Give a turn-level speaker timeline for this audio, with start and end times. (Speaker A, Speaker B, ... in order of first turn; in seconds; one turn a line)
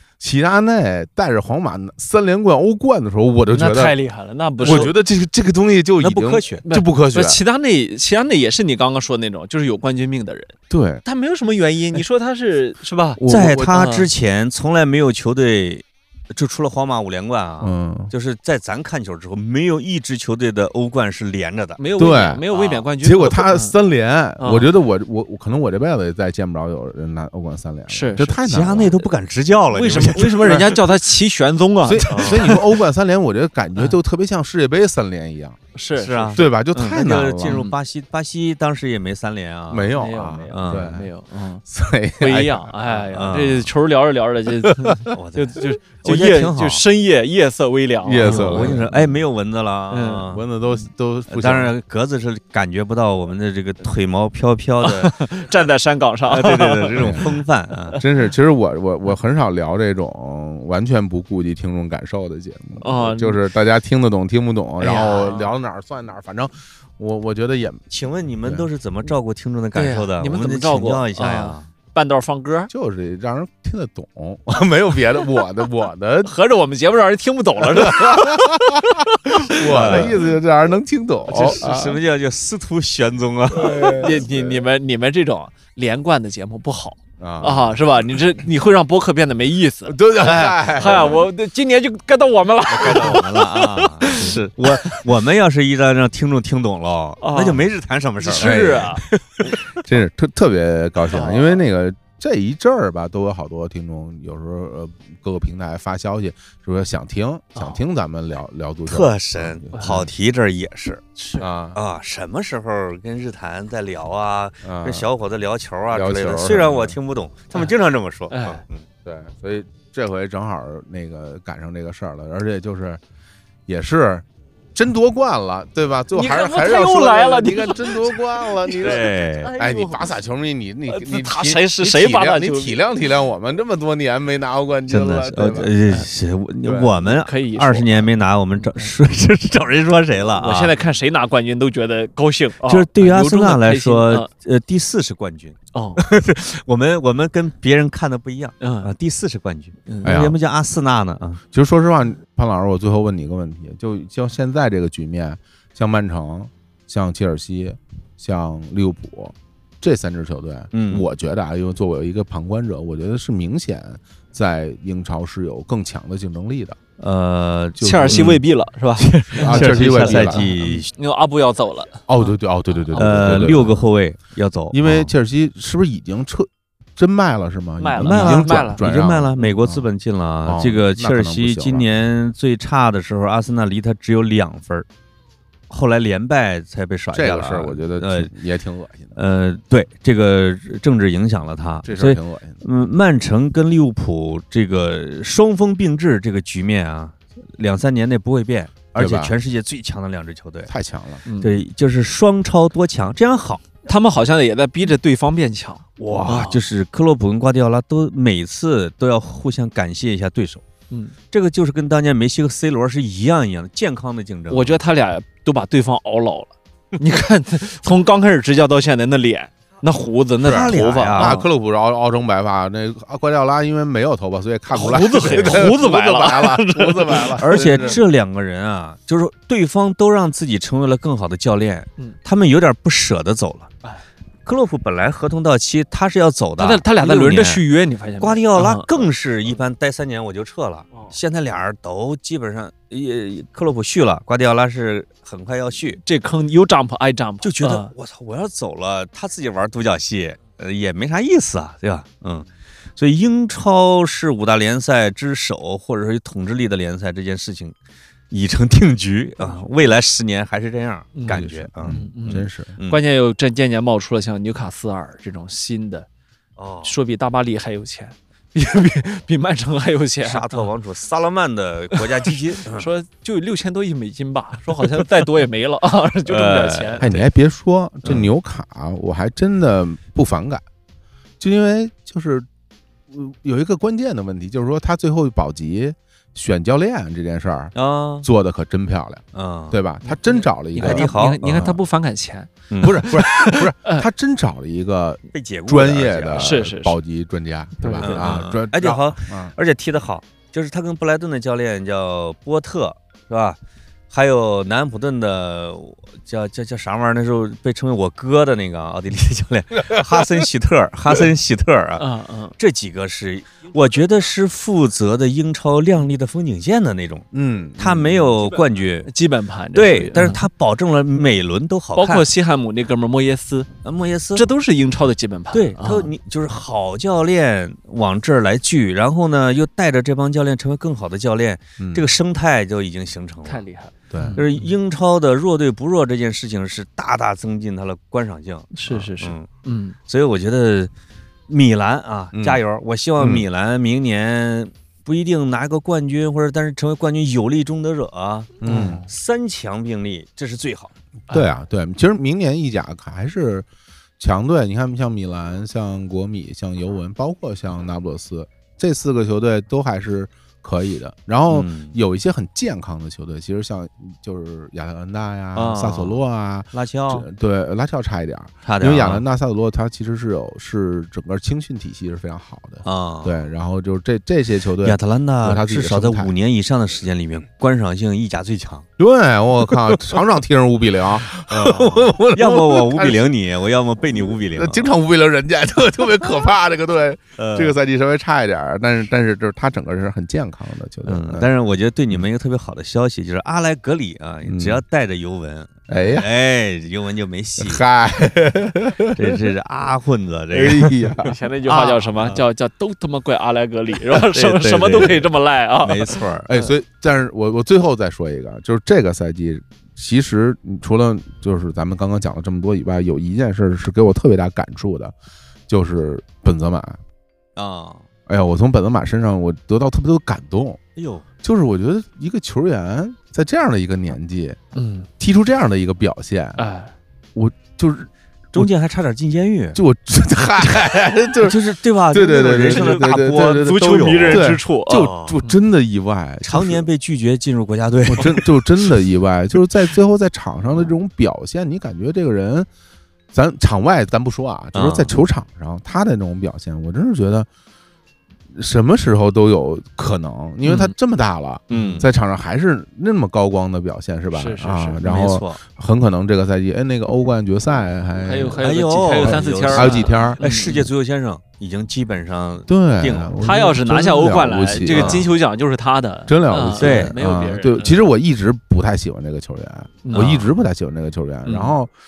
Speaker A: 0.2-4.0
Speaker B: 3.5-5.0
Speaker A: 4.6-7.4
Speaker C: 4.6-4.9
Speaker C: 6.0-6.6
Speaker B: 6.7-14.1
Speaker A: 10.7-11.0
Speaker A: 13.2-13.7
Speaker C: 13.3-21.8
Speaker A: 17.6-18.1
Speaker B: 21.8-23.8
Speaker A: 22.0-22.4
Speaker C: 22.5-22.9
Speaker A: 23.0-29.0
Speaker B: 24.4-24.7
Speaker B: 27.9-28.4
Speaker C: 28.5-30.8
Speaker B: 29.7-32.6
Speaker A: 30.0-30.8
Speaker A: 31.8-35.6
Speaker C: 32.1-32.6
Speaker B: 35.7-36.4
Speaker C: 36.0-39.9
Speaker A: 36.4-37.6
Speaker B: 37.5-37.7
Speaker A: 39.7-41.1
Speaker B: 40.0-41.6
Speaker C: 40.5-40.9
Speaker A: 41.7-42.7
Speaker B: 42.2-48.8
Speaker C: 42.9-43.7
Speaker A: 44.7-45.0
Speaker C: 45.1-46.8
Speaker A: 48.0-49.1
Speaker C: 48.2-50.5
Speaker B: 49.9-50.3
Speaker A: 50.3-51.7
Speaker C: 51.3-55.3
Speaker B: 54.8-57.3
Speaker C: 56.3-58.0
Speaker A: 57.0-57.2
Speaker A: 58.0-67.9
Speaker B: 62.8-63.4
Speaker B: 64.8-65.5
Speaker C: 67.9-71.7
Speaker B: 69.8-72.7
Speaker A: 72.7-76.3
Speaker B: 76.2-80.1
Speaker A: 77.6-82.0
Speaker C: 79.7-80.2
Speaker C: 81.3-84.1
Speaker A: 83.5-84.6
Speaker B: 83.7-95.0
Speaker A: 87.2-88.2
Speaker A: 89.9-91.2
Speaker C: 90.7-91.2
Speaker C: 92.7-99.6
Speaker B: 97.2-97.7
Speaker B: 98.2-99.0
Speaker A: 98.3-99.0
Speaker A: 99.8-110.1
Speaker B: 101.1-101.6
Speaker C: 108.9-111.1
Speaker B: 109.7-110.0
Speaker B: 111.2-111.5
Speaker A: 111.4-111.8
Speaker C: 111.8-118.8
Speaker A: 114.7-115.1
Speaker A: 115.9-117.0
Speaker B: 118.3-118.6
Speaker A: 119.0-123.0
Speaker A: 123.7-135.7
Speaker B: 126.1-130.1
Speaker C: 128.8-129.5
Speaker B: 130.9-132.8
Speaker C: 134.9-140.8
Speaker A: 136.6-136.9
Speaker B: 137.0-138.1
Speaker B: 140.4-144.3
Speaker C: 142.7-151.4
Speaker B: 145.7-146.0
Speaker B: 148.6-148.9
Speaker A: 150.0-150.4
Speaker A: 151.5-166.8
Speaker C: 160.7-161.1
Speaker C: 167.0-168.4
Speaker A: 167.8-168.4
Speaker B: 167.8-172.1
Speaker C: 169.0-170.9
Speaker A: 169.3-170.5
Speaker A: 172.1-173.8
Speaker B: 172.8-173.2
Speaker C: 172.9-175.1
Speaker A: 174.7-179.8
Speaker B: 177.8-178.8
Speaker C: 178.0-184.9
Speaker A: 180.4-181.9
Speaker C: 185.7-188.3
Speaker A: 187.1-189.2
Speaker C: 189.2-200.7
Speaker A: 191.8-192.6
Speaker A: 199.0-199.3
Speaker A: 200.7-201.2
Speaker B: 201.3-201.6
Speaker C: 201.4-203.7
Speaker B: 203.9-206.6
Speaker C: 206.0-210.6
Speaker C: 211.3-214.8
Speaker B: 214.5-221.5
Speaker C: 220.4-221.4
Speaker A: 220.4-228.0
Speaker B: 224.7-228.0
Speaker C: 225.3-225.7
Speaker C: 227.4-233.7
Speaker C: 234.5-237.6
Speaker B: 236.6-239.1
Speaker C: 238.2-246.0
Speaker B: 246.1-247.9
Speaker C: 247.4-257.8
Speaker C: 258.3-263.0
Speaker B: 261.1-266.1
Speaker A: 261.3-262.8
Speaker C: 266.6-267.0
Speaker B: 266.8-270.7
Speaker C: 270.2-272.9
Speaker B: 272.6-277.1
Speaker C: 276.2-277.3
Speaker A: 277.0-280.6
Speaker C: 278.0-278.3
Speaker A: 281.4-282.5
Speaker A: 283.1-291.8
Speaker C: 287.8-288.3
Speaker C: 289.3-289.8
Speaker B: 290.0-294.1
Speaker C: 290.8-291.7
Speaker C: 292.7-293.0
Speaker A: 292.8-299.5
Speaker C: 295.3-296.6
Speaker B: 296.4-296.9
Speaker B: 297.8-298.4
Speaker C: 298.0-303.6
Speaker C: 304.1-312.1
Speaker B: 312.0-312.5
Speaker C: 312.6-317.3
Speaker A: 317.3-318.4
Speaker C: 317.8-319.1
Speaker B: 319.1-320.4
Speaker C: 319.7-322.3
Speaker B: 322.0-323.7
Speaker C: 323.8-324.5
Speaker B: 324.4-326.1
Speaker C: 325.5-333.6
Speaker A: 331.8-332.1
Speaker B: 333.5-334.6
Speaker A: 334.1-334.4
Speaker C: 334.4-339.5
Speaker B: 338.8-340.0
Speaker C: 340.1-340.9
Speaker C: 341.5-350.9
Speaker A: 342.3-342.6
Speaker A: 343.2-343.5
Speaker A: 348.6-349.1
Speaker B: 348.7-349.1
Speaker A: 351.3-353.7
Speaker A: 354.2-376.3
Speaker C: 361.5-361.9
Speaker C: 365.6-366.2
Speaker C: 366.7-367.3
Speaker C: 368.6-369.2
Speaker C: 372.8-373.4
Speaker C: 374.8-378.9
Speaker A: 379.0-383.3
Speaker C: 381.4-384.9
Speaker A: 384.3-391.5
Speaker C: 387.4-387.8
Speaker C: 391.1-397.8
Speaker A: 394.5-394.8
Speaker A: 395.9-396.3
Speaker A: 397.6-399.4
Speaker C: 399.1-402.4
Speaker A: 400.5-401.3
Speaker B: 401.2-406.2
Speaker C: 404.1-405.3
Speaker C: 405.8-406.5
Speaker A: 406.5-415.1
Speaker A: 415.7-417.0
Speaker C: 417.6-418.1
Speaker A: 418.3-420.8
Speaker C: 421.0-421.2
Speaker A: 421.4-424.6
Speaker B: 424.8-425.1
Speaker A: 425.2-426.6
Speaker B: 426.6-426.9
Speaker A: 427.4-428.7
Speaker C: 428.5-429.8
Speaker A: 429.7-436.9
Speaker C: 431.4-435.4
Speaker B: 432.7-435.6
Speaker C: 436.4-439.0
Speaker A: 438.1-442.7
Speaker A: 443.3-447.5
Speaker C: 444.7-445.1
Speaker A: 448.5-458.6
Speaker B: 450.6-450.9
Speaker C: 451.7-452.1
Speaker B: 451.7-452.0
Speaker B: 454.3-455.0
Speaker C: 455.0-455.6
Speaker B: 458.2-460.7
Speaker C: 458.6-463.3
Speaker A: 459.1-460.9
Speaker A: 462.7-465.3
Speaker B: 463.4-468.0
Speaker C: 464.9-465.3
Speaker A: 466.3-471.9
Speaker C: 466.8-467.1
Speaker B: 470.0-470.3
Speaker C: 470.1-470.5
Speaker C: 471.4-471.8